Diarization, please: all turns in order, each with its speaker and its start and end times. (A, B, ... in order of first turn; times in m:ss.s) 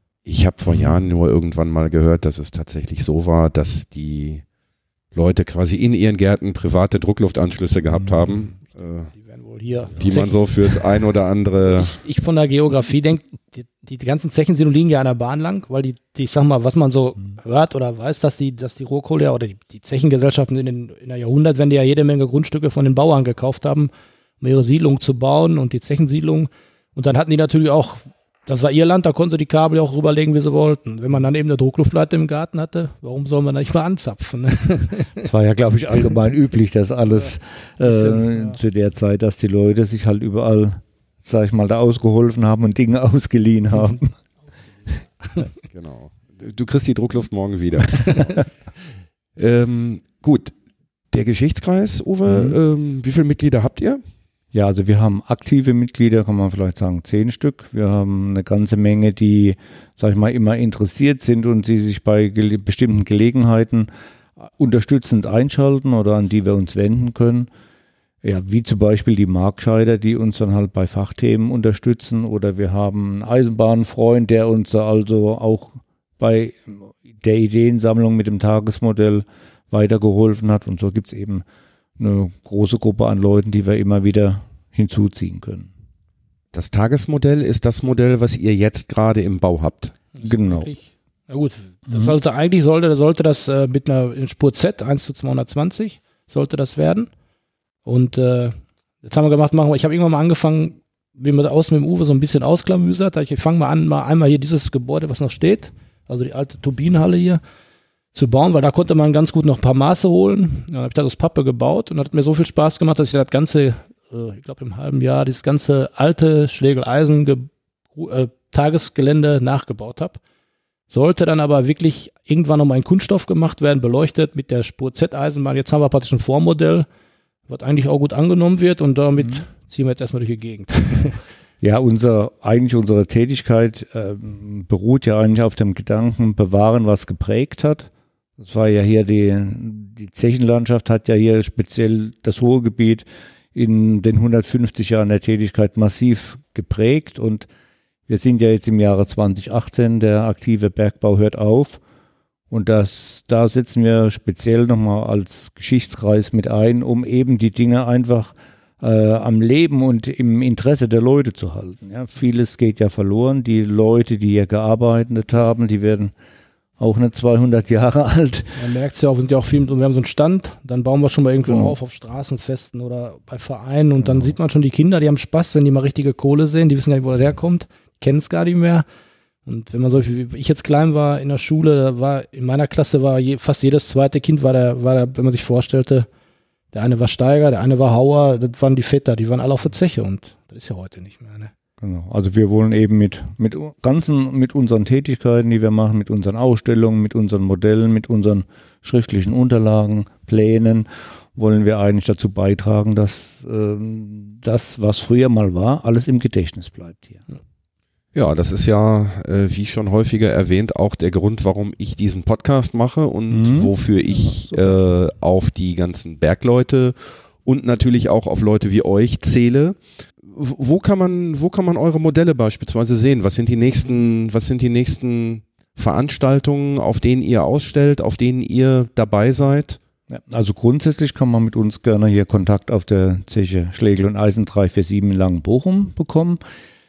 0:00.3-0:04.4 A
0:05.1-0:09.1 A
0:09.1-0:10.4 B
0:10.0-0:12.0 A
0:11.7-0:35.2 B
0:35.2-0:44.2 C
0:37.8-0:38.6 B
0:45.7-0:48.4 A
0:49.4-0:50.5 A
0:51.1-0:54.0 A
0:52.3-0:52.6 C
0:54.5-1:03.9 C
1:04.4-1:07.5 C
1:08.2-1:21.4 C
1:22.0-1:25.7 C
1:26.5-1:30.0 A
1:30.2-1:37.1 B
1:30.2-1:30.7 C
1:37.9-1:47.4 B
1:48.2-2:00.2 B
2:00.9-2:06.9 B
2:07.5-2:11.2 B
2:11.6-2:27.5 C
2:28.1-2:31.8 C
2:32.5-2:46.1 C
2:46.8-2:48.6 C
2:48.6-2:58.8 B
2:51.5-2:51.7 C
2:54.0-2:54.3 C
2:59.5-3:06.1 B
3:06.7-3:11.5 B
3:11.8-3:27.3 C
3:28.2-3:49.8 A
3:33.3-3:34.8 C
3:50.1-3:56.4 C